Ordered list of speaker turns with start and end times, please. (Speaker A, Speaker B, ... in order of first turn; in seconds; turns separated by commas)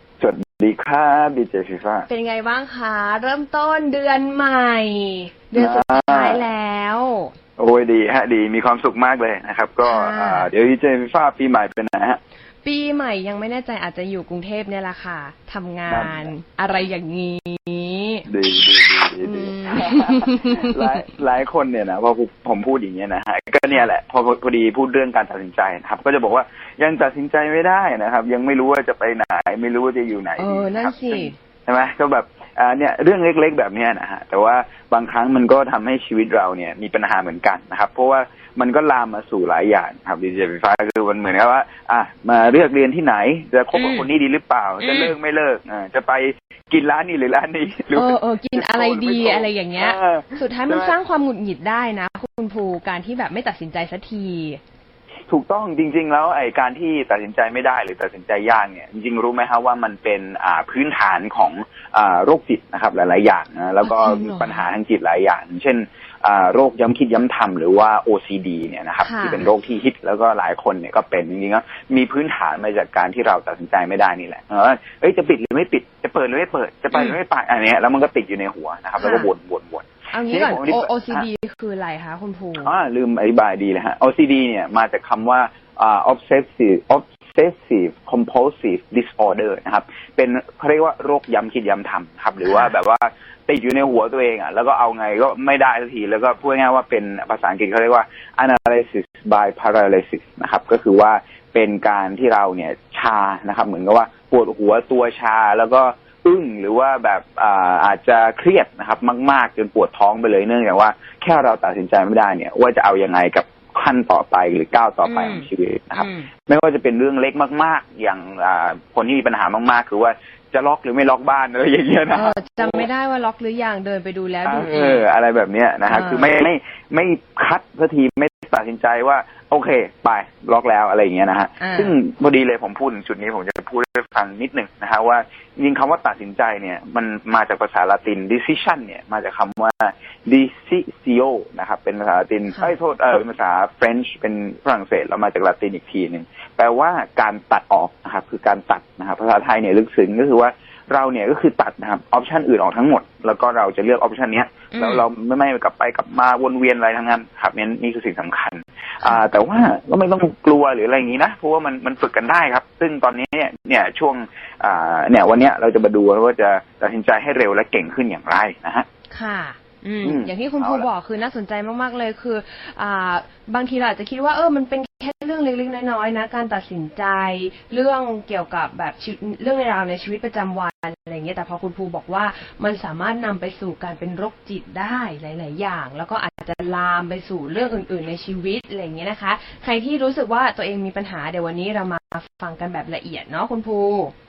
Speaker A: 0.2-2.1, Speaker B: 2.1-7.3, Speaker A: 5.5-6.4, Speaker A: 7.6-12.2, Speaker B: 9.8-10.5, Speaker B: 12.6-18.3, Speaker A: 15.9-16.3, Speaker A: 18.3-50.9, Speaker B: 19.2-20.8, Speaker B: 30.4-31.4, Speaker B: 43.7-44.1, Speaker B: 44.8-45.1, Speaker B: 47.9-54.6, Speaker A: 55.3-81.2, Speaker B: 63.8-64.6, Speaker B: 69.0-69.5, Speaker B: 79.0-79.3, Speaker B: 80.1-82.7, Speaker A: 82.6-122.9, Speaker B: 92.4-92.7, Speaker B: 115.0-116.3, Speaker B: 122.1-125.1, Speaker A: 124.5-168.8, Speaker B: 125.9-126.4, Speaker B: 131.6-131.9, Speaker B: 154.7-155.0, Speaker B: 169.1-194.1, Speaker A: 170.0-170.9